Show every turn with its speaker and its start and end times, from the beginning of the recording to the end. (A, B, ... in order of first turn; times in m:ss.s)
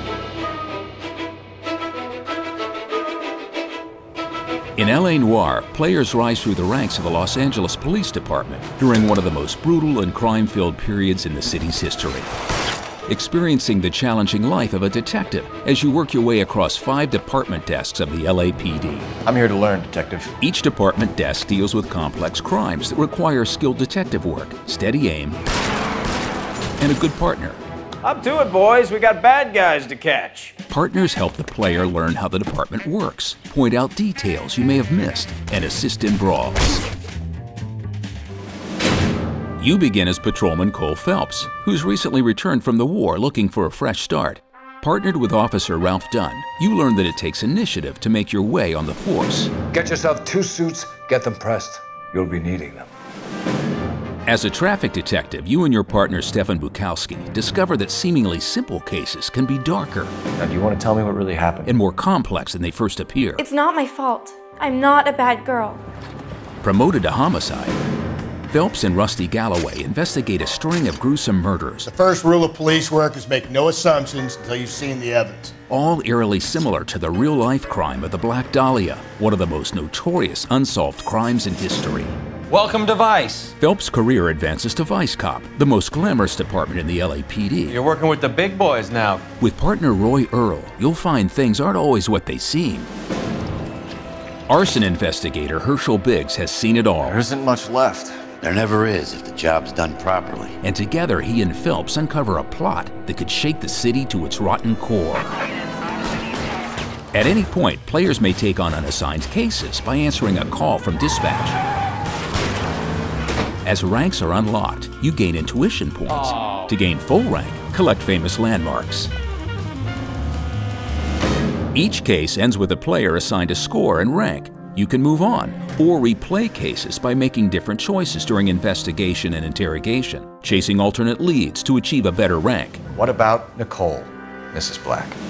0:04.8-0:12.3 A
0:13.1-0:19.1 A
0:19.2-0:20.3 B
0:20.4-0:25.4 A
0:26.8-0:27.6 A
0:30.7-0:36.8 A
0:39.6-0:49.5 A
0:49.7-0:52.9 C
0:54.2-1:00.1 A
1:00.4-1:01.7 B
1:01.6-1:03.4 A
1:03.4-1:05.8 D
1:06.6-1:07.8 A
1:08.5-1:11.9 A
1:11.8-1:15.6 E
1:15.7-1:22.2 A
1:22.5-1:23.5 F
1:23.6-1:27.9 A
1:27.9-1:29.2 F
1:29.4-1:32.9 A
1:34.5-1:37.2 A
1:37.0-1:38.3 B
1:38.3-1:40.6 G
1:40.6-1:45.3 A
1:47.1-1:51.6 A
1:53.6-1:59.1 A
2:01.7-2:12.8 A
2:12.9-2:15.2 B